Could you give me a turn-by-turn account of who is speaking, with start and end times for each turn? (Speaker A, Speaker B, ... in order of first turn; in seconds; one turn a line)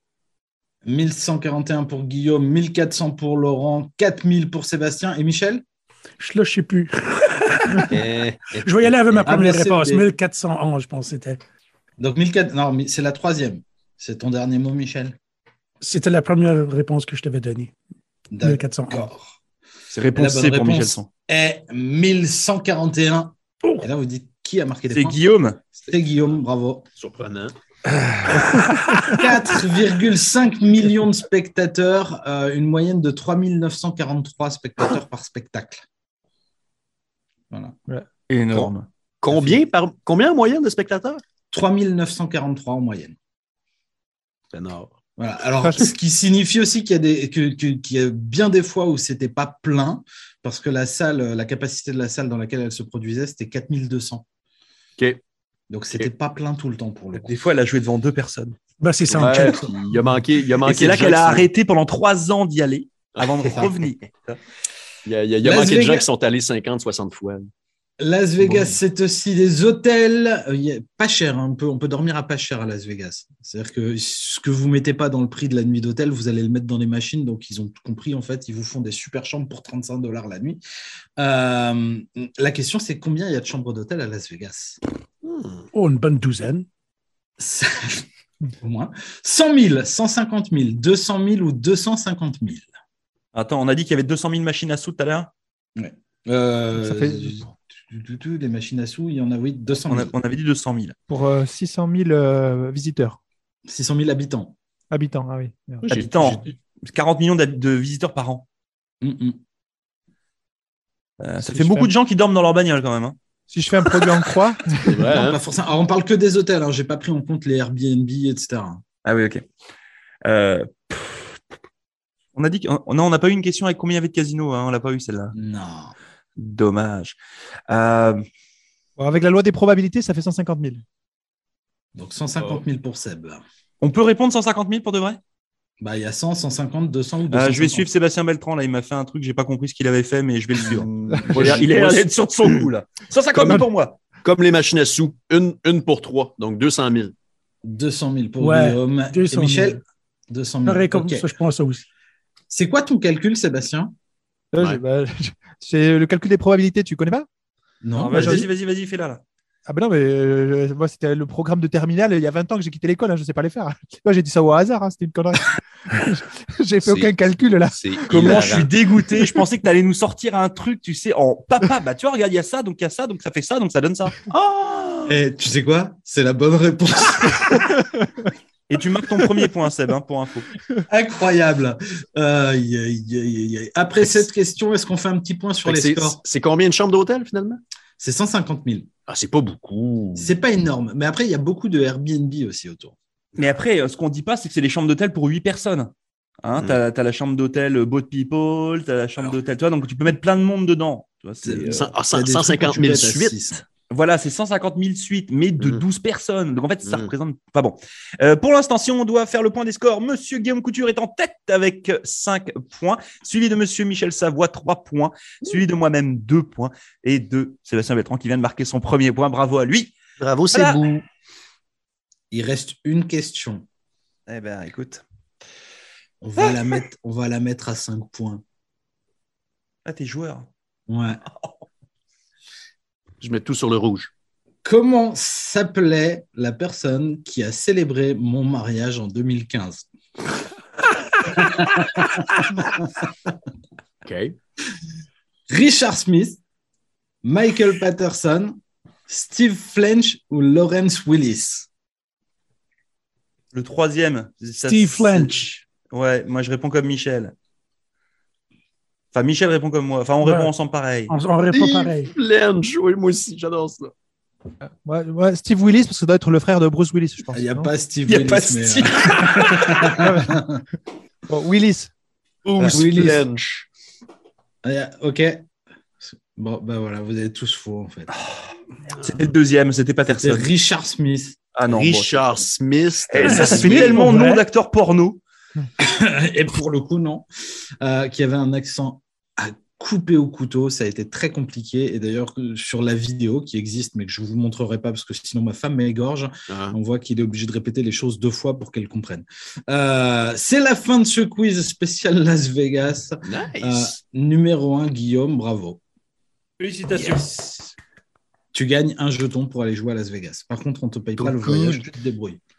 Speaker A: 0.8-5.6
Speaker B: 6.2-8.1
Speaker C: 7.9-9.3
Speaker B: 8.6-11.4
Speaker A: 9.2-10.1
Speaker A: 12.0-15.1
Speaker B: 15.8-17.7
Speaker A: 18.3-19.3
Speaker B: 18.4-19.1
Speaker D: 19.9-21.1
Speaker A: 20.1-26.9
Speaker D: 24.9-25.6
Speaker C: 27.0-27.5
Speaker D: 27.9-28.8
Speaker A: 29.1-35.8
Speaker A: 37.5-37.8
Speaker D: 38.3-38.9
Speaker C: 38.5-41.2
Speaker A: 41.5-43.1
Speaker C: 44.5-44.9
Speaker A: 45.2-54.2
Speaker A: 55.7-57.3
Speaker D: 57.2-58.6
Speaker B: 58.8-59.6
Speaker C: 59.1-61.5
Speaker D: 60.6-64.4
Speaker C: 63.1-63.9
Speaker C: 65.0-67.5
Speaker A: 65.4-66.1
Speaker A: 68.0-80.6
Speaker C: 68.4-68.8
Speaker A: 81.2-84.8
Speaker C: 85.2-85.7
Speaker B: 85.7-86.7
Speaker A: 87.4-88.0
Speaker A: 88.6-92.7
Speaker D: 93.3-95.3
Speaker A: 95.8-100.1
Speaker E: 96.7-97.5
Speaker D: 99.9-100.9
Speaker E: 101.1-103.2
Speaker A: 103.7-104.5
Speaker E: 104.9-105.9
Speaker D: 105.9-108.4
Speaker A: 109.0-109.4
Speaker D: 111.2-113.2
Speaker E: 111.4-111.9
Speaker E: 113.5-115.1
Speaker C: 114.8-115.4
Speaker A: 115.0-118.8
Speaker D: 119.0-119.4
Speaker D: 120.2-121.4
Speaker D: 122.3-125.3
Speaker A: 125.3-125.9
Speaker D: 126.4-127.2
Speaker D: 127.7-128.2
Speaker E: 129.0-130.8
Speaker A: 131.9-133.4
Speaker D: 133.8-135.2
Speaker A: 135.8-137.9
Speaker D: 137.3-144.0
Speaker C: 140.6-142.1
Speaker C: 144.2-147.1
Speaker A: 147.6-151.3
Speaker B: 148.4-149.7
Speaker B: 150.6-151.8
Speaker A: 152.5-153.9
Speaker E: 154.5-157.3
Speaker A: 157.8-158.5
Speaker D: 158.0-159.2
Speaker E: 158.1-158.5
Speaker E: 159.7-168.7
Speaker C: 166.8-167.1
Speaker C: 167.7-168.7
Speaker D: 168.1-174.2
Speaker C: 174.3-175.2
Speaker A: 175.1-177.8
Speaker D: 178.7-180.5
Speaker A: 180.9-186.2
Speaker C: 184.0-184.2
Speaker C: 185.6-187.6
Speaker A: 188.0-188.9
Speaker C: 189.1-190.3
Speaker A: 190.2-192.9
Speaker D: 193.4-201.9
Speaker A: 201.4-203.6
Speaker C: 201.7-203.3
Speaker D: 203.8-219.9
Speaker C: 206.8-207.1
Speaker C: 220.2-220.8
Speaker D: 220.5-220.8
Speaker A: 222.3-223.6
Speaker D: 224.3-225.0
Speaker A: 226.2-228.4
Speaker D: 229.8-230.5
Speaker A: 230.9-231.2
Speaker C: 233.2-234.1
Speaker A: 234.6-239.8
Speaker A: 241.4-242.7
Speaker C: 244.1-244.3
Speaker A: 245.5-246.4
Speaker A: 247.2-248.5
Speaker A: 249.1-251.7
Speaker D: 253.5-255.3
Speaker B: 254.7-255.6
Speaker D: 255.9-257.3
Speaker D: 259.1-261.1
Speaker B: 260.2-260.5
Speaker B: 261.1-262.1
Speaker C: 261.5-263.9
Speaker E: 264.8-267.7
Speaker A: 267.3-270.6
Speaker D: 268.1-269.9
Speaker E: 270.0-270.4
Speaker E: 271.3-271.9
Speaker C: 272.4-273.7
Speaker A: 272.7-273.2
Speaker A: 274.6-275.4
Speaker A: 276.0-278.1
Speaker D: 279.0-280.5
Speaker A: 280.2-281.4
Speaker D: 281.5-282.2
Speaker C: 281.7-284.0
Speaker D: 283.1-285.2
Speaker A: 283.2-284.0
Speaker E: 284.1-284.4
Speaker A: 285.8-287.2
Speaker A: 287.8-305.8
Speaker C: 296.5-296.8
Speaker C: 303.2-304.0
Speaker D: 306.6-307.5
Speaker A: 308.5-312.4
Speaker C: 311.2-311.8